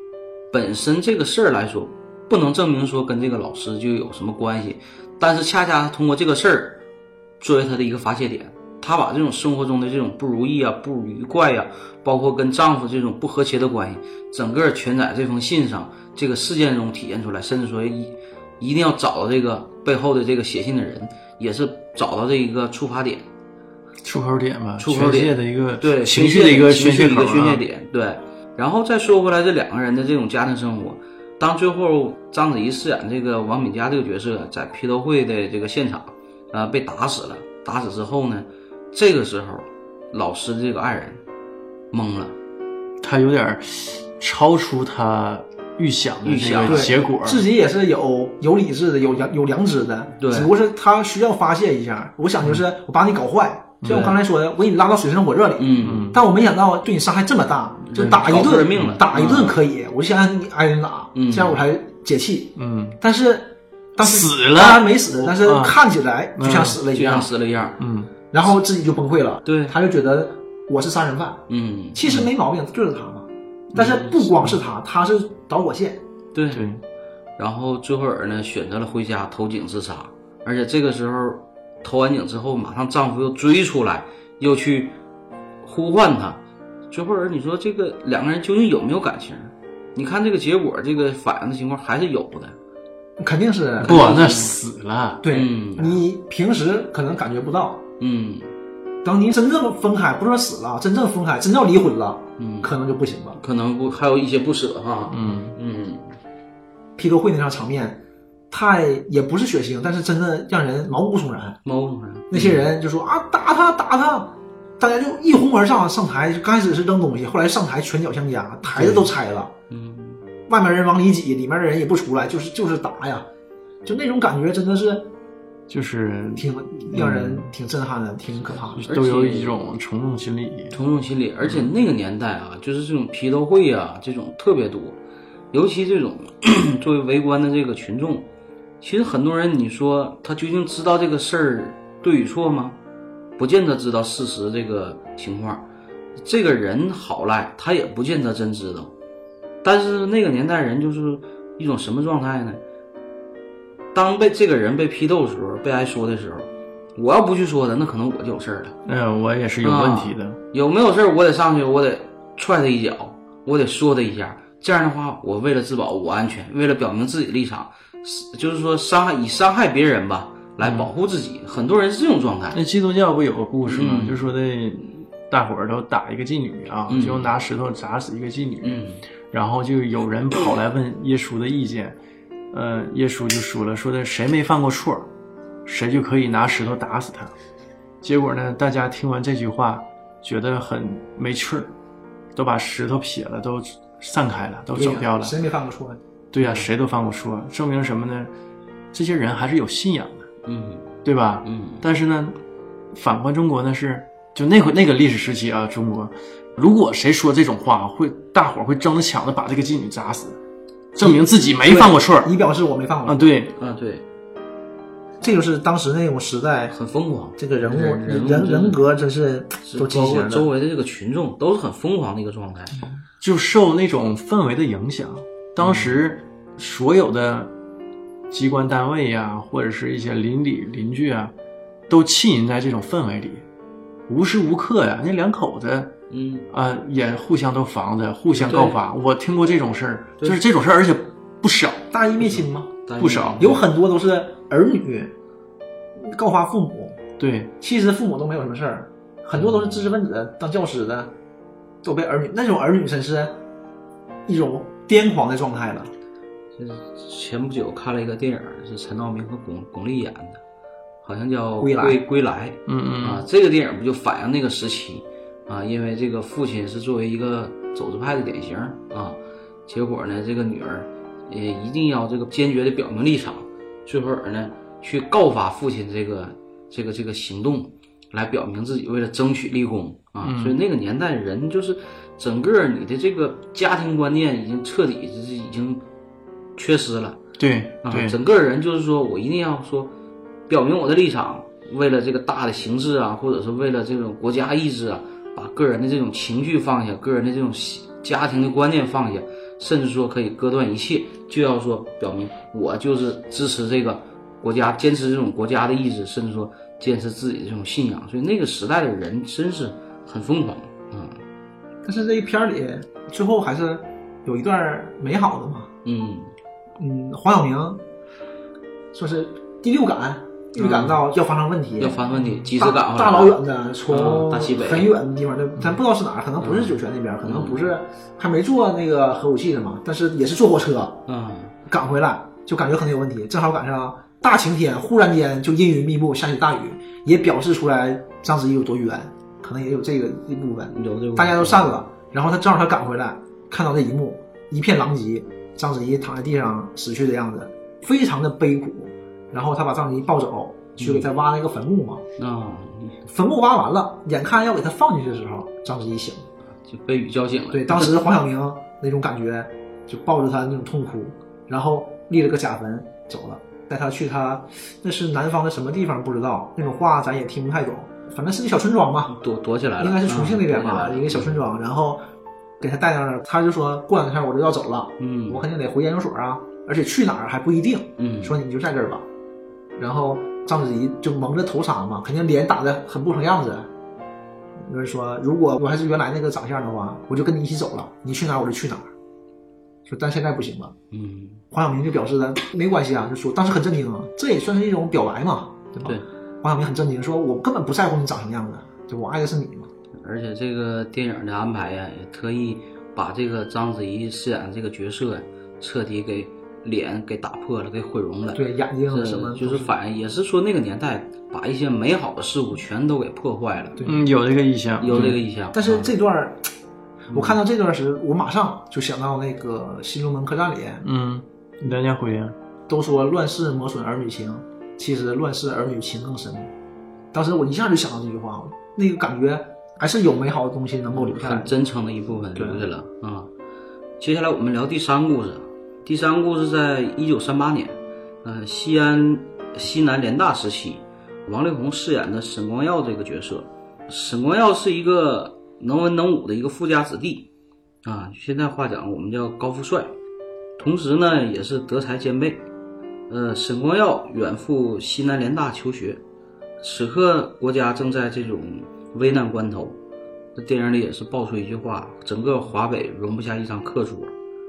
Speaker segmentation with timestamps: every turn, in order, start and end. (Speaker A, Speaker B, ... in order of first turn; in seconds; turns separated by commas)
Speaker A: 0.5-6.8, Speaker A: 7.4-23.3, Speaker B: 24.0-27.6, Speaker A: 24.8-41.2, Speaker A: 41.9-42.4, Speaker B: 43.0-47.5, Speaker A: 46.2-46.9, Speaker C: 46.6-67.3, Speaker A: 50.2-50.5, Speaker B: 53.8-54.1, Speaker A: 53.9-54.2, Speaker A: 55.6-56.1, Speaker B: 55.8-56.2, Speaker A: 57.9-59.6, Speaker A: 61.1-61.6, Speaker B: 62.6-63.0, Speaker B: 64.0-65.8, Speaker B: 66.4-66.8, Speaker A: 66.9-67.8, Speaker B: 67.8-68.1, Speaker C: 68.3-76.0, Speaker A: 69.5-69.8, Speaker A: 71.5-72.3, Speaker A: 73.8-74.3, Speaker A: 76.3-76.7, Speaker B: 76.5-76.8, Speaker A: 77.4-85.0, Speaker A: 85.6-92.5, Speaker C: 93.2-94.0, Speaker A: 93.8-94.6, Speaker B: 93.8-95.2, Speaker C: 95.2-97.8, Speaker A: 95.3-96.0, Speaker A: 98.0-98.5, Speaker C: 99.0-103.4, Speaker A: 102.4-102.7, Speaker A: 103.4-106.2, Speaker B: 105.1-105.5, Speaker C: 107.0-111.6, Speaker A: 111.7-112.7, Speaker C: 112.3-119.5, Speaker B: 118.8-119.0, Speaker A: 119.7-120.2, Speaker C: 120.5-123.3, Speaker C: 123.8-125.1, Speaker B: 125.7-127.5, Speaker C: 126.4-128.8, Speaker B: 128.8-130.8, Speaker A: 128.8-129.6, Speaker A: 130.7-135.0, Speaker A: 135.5-138.3, Speaker A: 138.8-142.8, Speaker A: 143.4-145.7, Speaker A: 146.2-148.9, Speaker A: 149.6-152.6, Speaker A: 153.9-158.8, Speaker B: 158.8-160.4, Speaker A: 159.6-172.6, Speaker B: 170.6-170.9, Speaker B: 172.5-182.0, Speaker A: 173.7-174.2, Speaker A: 176.9-177.3, Speaker A: 178.6-179.1, Speaker B: 182.5-185.1, Speaker B: 185.7-187.3, Speaker B: 188.0-191.8, Speaker B: 192.3-195.4, Speaker C: 194.8-196.0, Speaker B: 196.3-198.3, Speaker A: 196.4-196.7, Speaker B: 198.9-200.3, Speaker A: 200.4-201.8, Speaker B: 201.1-202.4, Speaker B: 202.9-210.4, Speaker B: 210.9-212.3, Speaker C: 211.0-213.3, Speaker B: 213.1-213.5, Speaker A: 213.6-214.1, Speaker C: 215.2-216.8, Speaker A: 216.7-218.8, Speaker C: 217.4-220.5, Speaker A: 219.6-222.8, Speaker B: 223.2-227.5, Speaker A: 225.6-225.9, Speaker B: 228.3-231.3, Speaker B: 231.9-233.4, Speaker B: 234.1-235.9, Speaker A: 236.1-236.5, Speaker B: 236.5-241.8, Speaker A: 238.3-238.8, Speaker C: 241.9-242.7, Speaker A: 242.8-243.6, Speaker B: 243.0-243.5, Speaker C: 243.4-245.1, Speaker C: 246.0-247.0, Speaker B: 247.2-247.5, Speaker C: 247.6-251.1, Speaker A: 249.3-249.9, Speaker C: 251.8-253.4, Speaker C: 254.3-255.9, Speaker A: 256.6-260.4, Speaker A: 261.0-285.8, Speaker C: 261.6-262.0, Speaker B: 262.7-263.2, Speaker B: 280.2-280.6, Speaker A: 286.6-287.2, Speaker B: 287.4-288.2, Speaker A: 287.8-289.9, Speaker A: 290.5-311.2, Speaker C: 311.8-315.7, Speaker A: 315.9-316.3, Speaker C: 316.8-317.8, Speaker C: 318.9-331.0, Speaker A: 320.6-321.0, Speaker A: 321.8-323.4, Speaker A: 323.9-324.9, Speaker A: 326.4-327.7, Speaker A: 331.1-331.5, Speaker C: 331.7-352.0, Speaker A: 340.7-341.8, Speaker A: 350.8-351.1, Speaker A: 352.2-353.0, Speaker C: 353.1-356.3, Speaker A: 356.6-357.9, Speaker C: 357.5-369.1, Speaker A: 369.1-371.4, Speaker C: 369.8-372.0, Speaker C: 372.6-379.1, Speaker A: 375.0-375.4, Speaker A: 378.0-378.4, Speaker C: 379.8-383.7, Speaker C: 384.6-388.9, Speaker C: 389.9-390.8, Speaker A: 390.9-391.4, Speaker C: 391.5-399.7, Speaker A: 400.0-413.8, Speaker C: 408.4-409.7, Speaker C: 413.8-414.1, Speaker B: 413.8-415.2, Speaker A: 414.8-415.9, Speaker C: 414.9-416.5, Speaker A: 417.1-417.4, Speaker C: 417.1-420.9, Speaker B: 420.8-422.4, Speaker C: 422.7-426.5, Speaker C: 427.1-431.5, Speaker A: 430.9-433.3, Speaker C: 432.4-432.7, Speaker A: 434.0-447.3, Speaker A: 447.8-449.9, Speaker A: 450.6-452.5, Speaker A: 453.1-456.0, Speaker A: 456.6-459.8, Speaker A: 460.4-464.1